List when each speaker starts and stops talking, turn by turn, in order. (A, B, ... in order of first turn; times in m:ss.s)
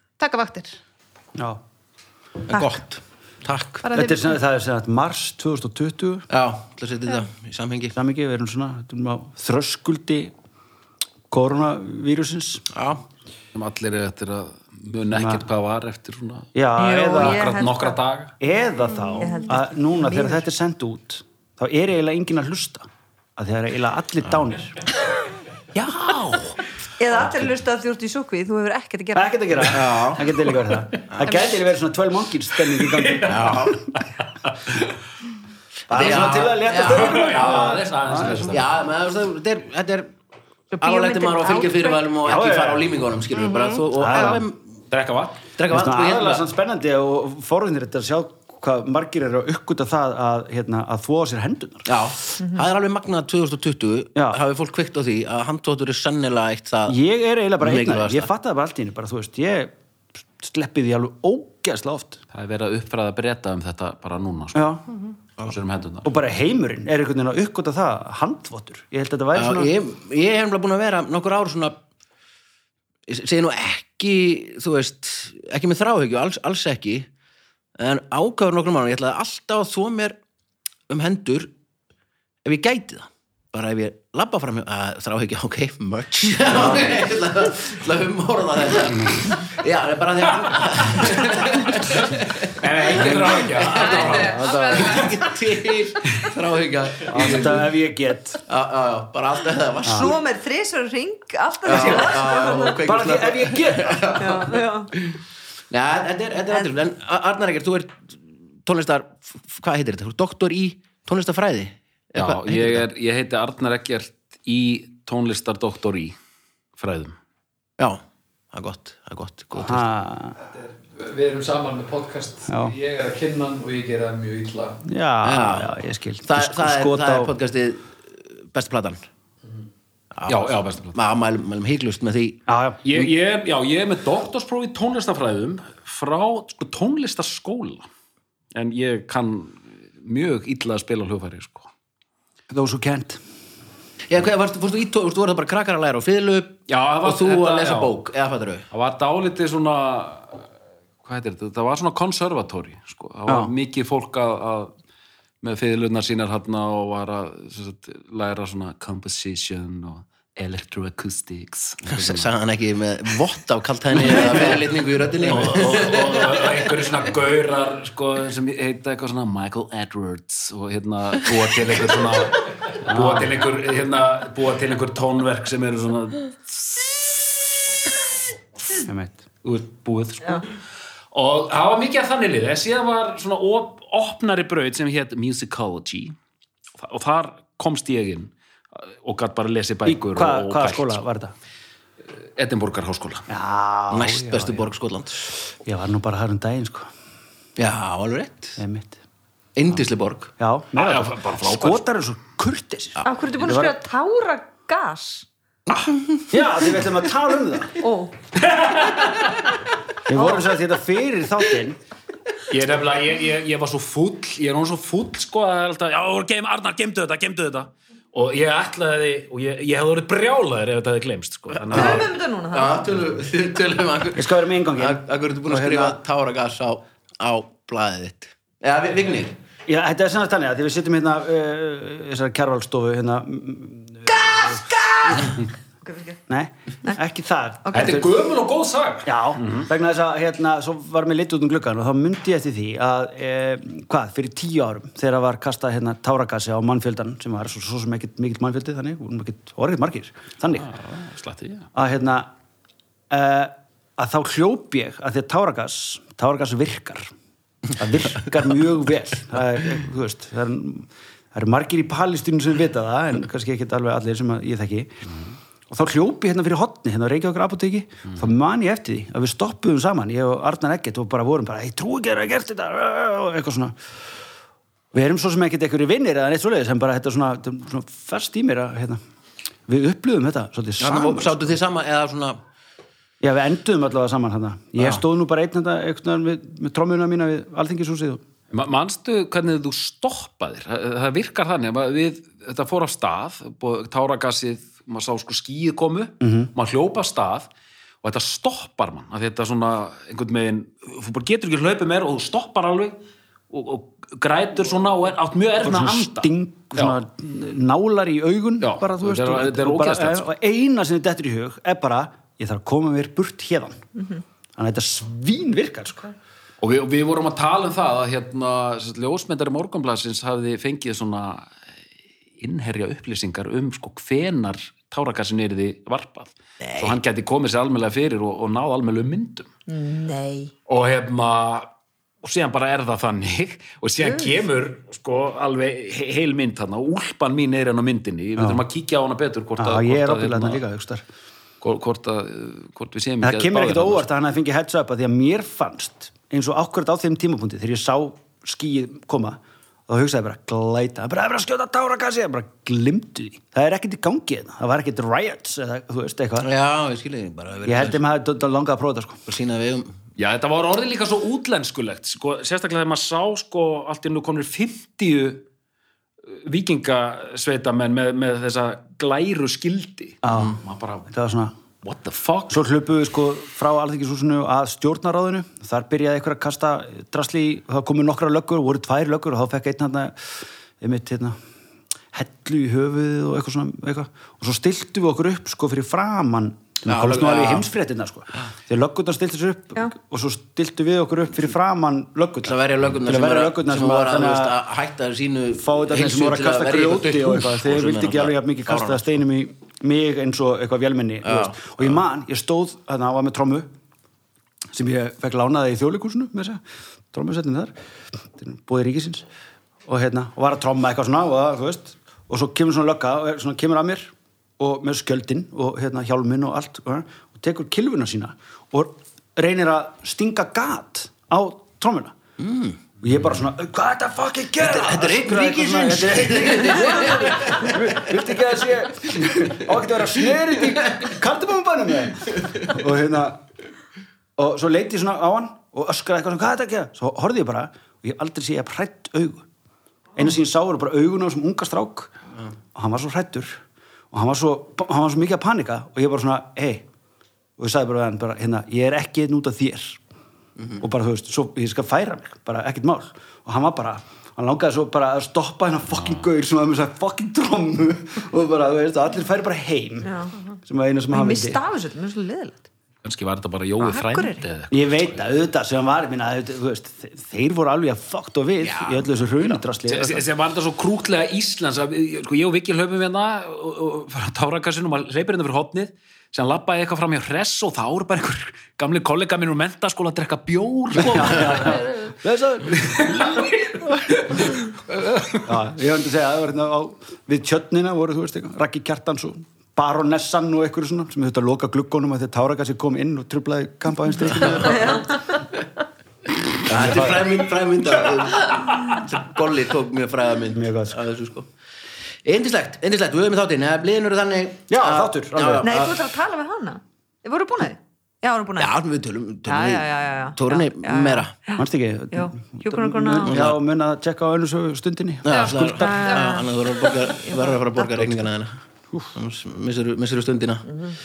0:00.2-0:00.8 A
0:01.4-0:01.6 B
0:02.5-0:03.9 C
0:02.5-0:02.8 D
0:03.9-0:04.4 A
0:03.9-0:06.3 B
0:06.3-0:08.0 C
0:07.9-0:10.3 B
0:11.3-0:12.7 B
0:12.7-0:13.0 C
0:13.5-0:18.3 E
0:15.1-0:15.4 B
0:16.6-0:17.4 B
0:16.8-0:18.0 D
0:18.4-0:24.8 B
0:19.2-0:20.4 D
0:25.8-0:26.5 E
0:27.0-0:29.4 D
0:29.2-0:33.7 B
0:29.7-0:30.3 C
0:31.0-0:31.4 C
0:31.2-0:31.5 A
0:32.9-0:34.0 E
0:33.3-0:33.8 C
0:35.9-0:38.6 B
0:35.9-0:37.7 C
0:36.8-0:38.7 E
0:38.5-0:40.1 C
0:40.7-0:42.0 D
0:40.8-0:44.6 C
0:42.2-0:42.9 B
0:43.3-0:44.4 A
0:44.0-0:44.4 B
0:44.9-0:45.4 E
0:45.6-0:46.5 C
0:45.7-0:51.9 B
0:51.9-0:57.0 C
0:56.9-0:59.8 B
0:57.6-0:58.3 C
1:00.4-1:02.2 B
1:02.3-1:04.8 E
1:04.6-1:04.8 B
1:05.4-1:06.1 E
1:06.0-1:09.7 B
1:09.3-1:11.8 C
1:13.1-1:17.1 C
1:17.8-1:20.2 C
1:20.9-1:21.5 C
1:22.4-1:37.7 C
1:32.5-1:34.4 E
1:32.9-1:33.4 B
1:33.7-1:35.3 A
1:37.1-1:38.4 B
1:38.4-1:40.2 C
1:39.8-1:40.1 B
1:39.9-1:42.8 D
1:41.7-1:44.4 B
1:41.7-1:45.1 C
1:44.2-1:45.0 D
1:45.7-1:52.8 C
1:52.2-1:56.2 E
1:56.8-1:57.2 E
1:58.5-1:59.9 C
1:59.6-2:00.4 B
2:00.4-2:04.8 F
2:02.5-2:02.8 B
2:04.8-2:07.3 B
2:05.2-2:09.0 C
2:10.1-2:12.4 C
2:10.3-2:11.0 E
2:12.5-2:12.8 B
2:12.8-2:17.9 E
2:18.5-2:21.7 E
2:22.5-2:23.2 B
2:24.1-2:28.6 C
2:26.7-2:27.9 E
2:28.7-2:30.5 E
2:31.0-2:34.7 E
2:33.3-2:33.5 B
2:35.4-2:42.3 E
2:41.9-2:46.4 C
2:44.0-2:44.6 E
2:45.2-2:57.4 E
2:52.8-2:53.4 B
2:58.8-2:59.2 B
2:59.4-3:00.6 E
3:01.1-3:06.2 E
3:06.8-3:11.0 E
3:09.8-3:11.3 B
3:12.4-3:13.3 E
3:13.3-3:14.7 B
3:13.9-3:15.3 C
3:15.6-3:16.9 B
3:17.6-3:18.6 C
3:18.6-3:19.0 B
3:19.6-3:20.3 C
3:20.4-3:23.8 B
3:20.8-3:21.8 E
3:23.0-3:25.3 D
3:26.3-3:27.8 B
3:27.8-3:28.2 D
3:28.4-3:29.5 E
3:30.1-3:31.8 B
3:30.1-3:30.4 D
3:32.5-3:42.1 E
3:41.5-3:49.4 C
3:41.7-3:42.8 D
3:44.2-3:46.0 B
3:49.7-3:54.6 B
3:54.1-3:56.2 D
3:56.3-3:58.1 B
3:57.7-3:59.7 E
3:59.0-4:10.7 B
4:10.5-4:11.7 E
4:11.8-4:12.3 B
4:13.1-4:17.1 B
4:17.8-4:25.1 B
4:25.7-4:33.8 B
4:34.9-4:39.0 B
4:39.7-4:41.6 B
4:40.8-4:42.4 C
4:43.2-4:48.2 B
4:48.5-4:57.5 E
4:56.2-4:56.5 B
4:58.0-5:03.0 E
5:03.5-5:07.0 E
5:05.6-5:13.8 B
5:08.6-5:10.3 E
5:14.6-5:16.1 B
5:16.6-5:21.5 E
5:22.4-5:29.5 E
5:26.6-5:27.0 C
5:29.7-5:30.5 D
5:30.7-5:31.7 E
5:32.2-5:40.6 E
5:38.4-5:38.6 B
5:39.6-5:41.0 B
5:41.6-5:44.0 E
5:43.2-5:56.5 B
5:56.4-5:58.0 C
5:57.7-5:59.2 B
5:59.3-6:00.0 C
6:00.2-6:05.5 E
6:06.3-6:11.1 E
6:10.2-6:11.5 B
6:11.8-6:12.6 E
6:12.5-6:21.4 B
6:22.1-6:34.6 B
6:26.9-6:27.7 C
6:32.4-6:39.0 C
6:35.6-6:43.7 B
6:41.2-6:41.7 C
6:44.7-6:46.6 B
6:47.1-6:47.7 B
6:48.3-6:49.3 B
6:49.9-7:02.2 B
7:02.4-7:02.8 C
7:03.0-7:13.4 B
7:04.6-7:08.1 C
7:14.4-7:19.5 B
7:20.2-7:22.1 B
7:22.8-7:23.6 B
7:24.1-7:26.9 B
7:27.6-7:30.0 B
7:30.8-7:40.1 B
7:36.0-7:36.2 E
7:40.0-7:40.3 D
7:40.6-7:41.6 B
7:41.1-7:42.7 D
7:43.0-7:45.3 E
7:43.8-7:44.4 D
7:44.7-7:50.2 B
7:49.9-8:02.1 E
8:01.0-8:03.5 B
8:02.7-8:05.4 E
8:05.4-8:15.1 B
8:16.6-8:21.5 C
8:16.7-8:17.4 B
8:20.5-8:21.0 B
8:22.2-8:25.9 C
8:24.7-8:25.9 B
8:25.6-8:28.7 D
8:28.6-8:31.3 C
8:29.5-8:33.4 D
8:31.6-8:36.2 B
8:33.3-8:33.6 C
8:35.2-8:38.6 C
8:35.7-8:38.2 D
8:39.1-8:40.8 C